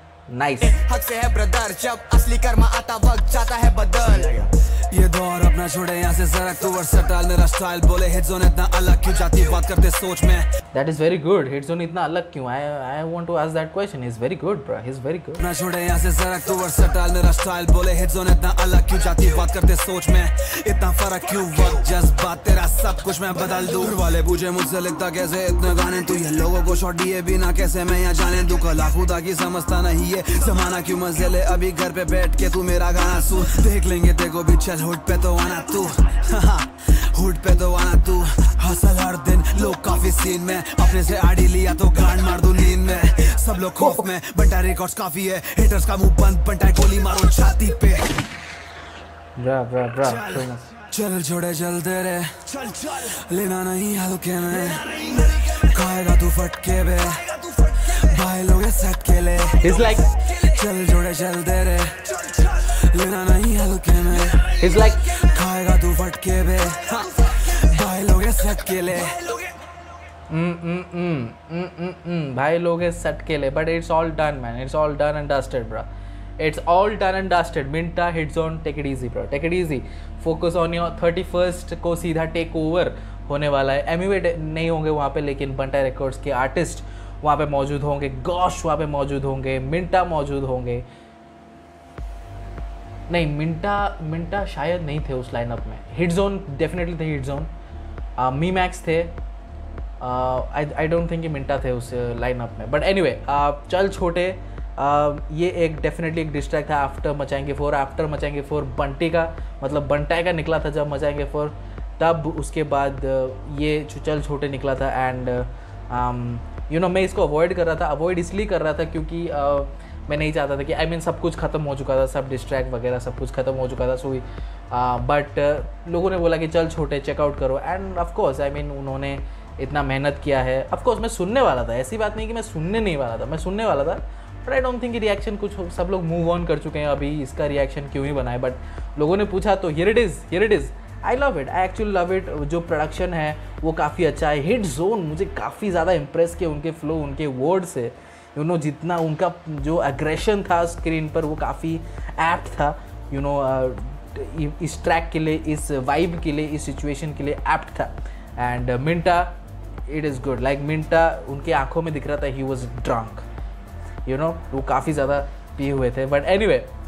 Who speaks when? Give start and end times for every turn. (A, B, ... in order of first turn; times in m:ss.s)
0:00.3-0:00.8 A
0:00.6-0:04.5 B
0:04.9-0:10.5 C
0:10.7-0:15.4 A
0:15.4-0:48.1 C
0:49.4-0:50.7 A
0:50.0-1:09.6 C
0:59.6-1:00.1 A
1:04.6-1:05.3 A
1:10.3-1:15.9 A
1:16.4-1:30.9 A
1:33.1-1:37.5 A
1:38.2-1:39.2 A
1:40.0-2:39.3 A
2:39.9-2:43.2 A
2:44.1-2:46.7 A